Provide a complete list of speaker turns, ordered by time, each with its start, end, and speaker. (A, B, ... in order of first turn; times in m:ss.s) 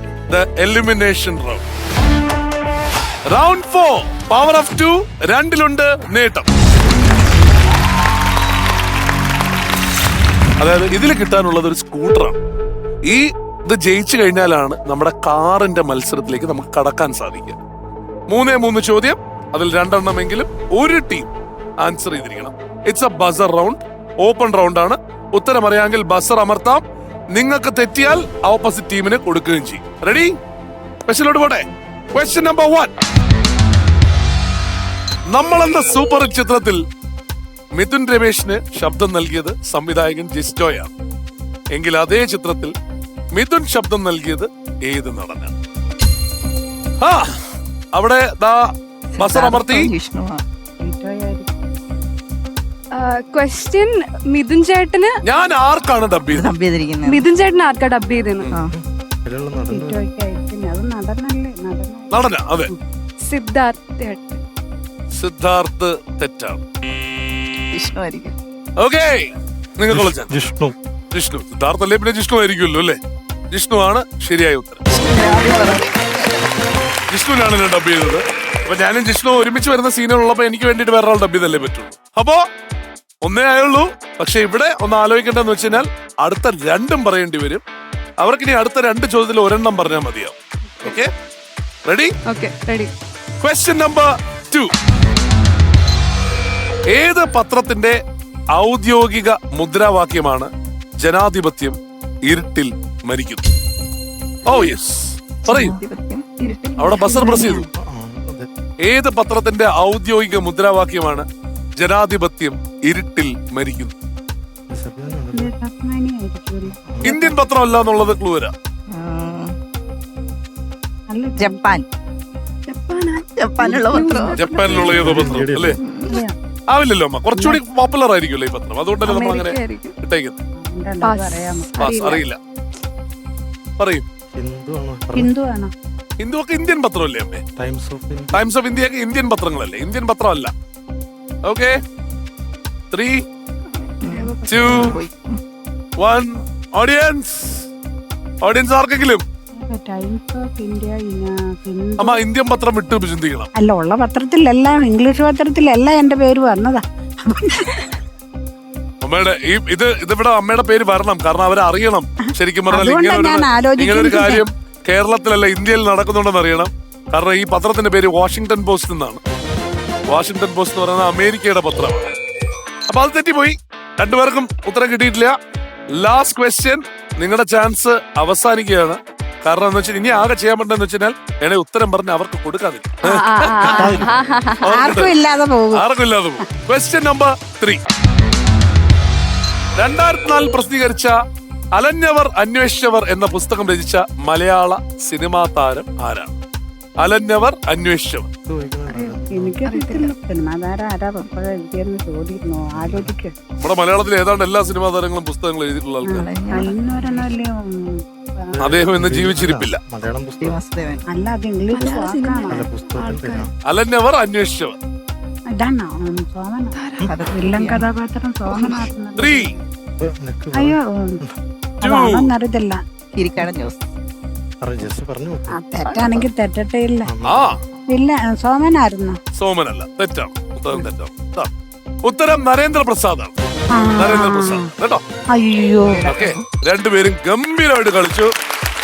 0:00.3-0:01.6 A
0:03.3-0:06.5 A
0:10.6-0:12.4 A
0:13.0-0:17.6 A
0:18.3-0:21.3 A
0:21.8-0:30.3 A
0:31.0-0:32.9 A
0:35.3-0:36.8 A
0:37.7-0:40.9 A
0:41.7-0:42.7 A
0:43.3-0:45.5 A
0:47.0-0:47.4 A
0:47.9-0:49.9 A
0:49.2-0:50.4 B
0:50.8-0:51.6 C
0:52.9-0:55.2 D
0:55.2-0:56.5 A
0:56.3-0:57.3 B
0:57.0-0:58.5 D
0:58.6-1:00.0 E
0:59.7-1:02.7 C
1:02.1-1:02.7 A
1:03.2-1:04.4 D
1:05.2-1:06.6 A
1:07.7-1:08.4 B
1:08.8-1:10.4 A
1:09.9-1:10.7 E
1:11.1-1:13.0 A
1:13.5-1:14.8 A
1:14.9-1:16.4 B
1:17.1-1:22.4 A
1:23.2-1:27.6 A
1:28.2-1:31.1 A
1:31.8-1:32.1 A
1:32.2-1:32.9 D
1:33.4-1:34.7 A
1:36.9-1:38.0 A
1:38.6-1:43.4 A
1:44.4-1:45.8 A
1:45.5-1:45.8 C
1:45.5-1:47.0 B
1:46.5-1:47.6 D
1:46.8-1:47.7 A
1:47.1-1:47.6 C
1:47.7-1:48.5 E
1:48.8-1:53.9 A
1:54.7-1:55.5 E
1:55.3-1:57.4 C
1:56.6-1:57.2 E
1:57.0-1:58.5 A
1:58.9-1:59.5 B
2:01.1-2:01.7 C
2:01.4-2:01.9 B
2:02.7-2:05.0 D
2:03.2-2:04.4 B
2:04.3-2:05.8 A
2:04.6-2:05.8 E
2:05.8-2:06.2 B
2:06.1-2:06.3 C
2:06.7-2:10.4 A
2:07.3-2:07.6 C
2:09.0-2:10.0 D
2:10.6-2:12.1 C
2:11.0-2:12.2 D
2:11.8-2:12.4 A
2:13.8-2:14.0 A
2:14.3-2:15.3 E
2:15.2-2:15.7 C
2:16.2-2:17.4 A
2:17.6-2:18.4 E
2:18.3-2:20.5 A
2:21.4-2:21.8 A
2:22.9-2:23.2 A
2:24.0-2:25.0 D
2:24.0-2:25.4 B
2:24.5-2:25.0 A
2:26.0-2:27.7 A
2:28.4-2:29.2 A
2:29.6-2:32.2 C
2:32.0-2:33.5 A
2:33.6-2:38.0 C
2:39.0-2:49.2 A
2:42.7-2:44.4 C
2:50.1-2:52.1 A
2:52.9-2:55.3 A
2:55.9-3:04.0 A
3:03.0-3:04.8 D
3:03.8-3:04.2 E
3:04.6-3:05.1 A
3:04.7-3:05.8 C
3:05.7-3:07.8 A
3:09.8-3:11.1 A
3:11.8-3:16.4 A
3:17.0-3:18.3 A
3:18.4-3:19.6 E
3:19.3-3:23.3 C
3:19.6-3:20.1 D
3:22.6-3:23.1 E
3:23.6-3:26.2 A
3:26.1-3:28.6 C
3:26.1-3:27.3 B
3:28.6-3:30.6 E
3:28.6-3:29.8 A
3:30.4-3:31.0 B
3:31.1-3:32.7 C
3:31.8-3:33.5 D
3:31.9-3:32.3 B
3:32.5-3:33.5 E
3:33.6-3:34.8 A
3:35.5-3:36.8 C
3:37.0-3:37.8 B
3:37.3-3:39.6 C
3:38.5-3:38.9 B
3:39.2-3:39.5 A
3:40.0-3:41.3 E
3:40.5-3:41.2 C
3:41.8-3:42.8 C
3:41.8-3:42.3 A
3:43.1-3:43.8 B
3:44.6-3:45.6 E
3:45.5-3:47.1 C
3:45.8-3:46.3 B
3:47.0-3:47.6 E
3:47.2-3:47.6 A
3:47.9-3:49.2 C
3:49.4-3:51.5 A
3:52.0-3:53.3 A
3:53.7-3:54.7 C
3:54.0-3:55.0 A
3:55.3-3:56.1 C
3:55.8-3:56.4 B
3:56.0-3:58.3 A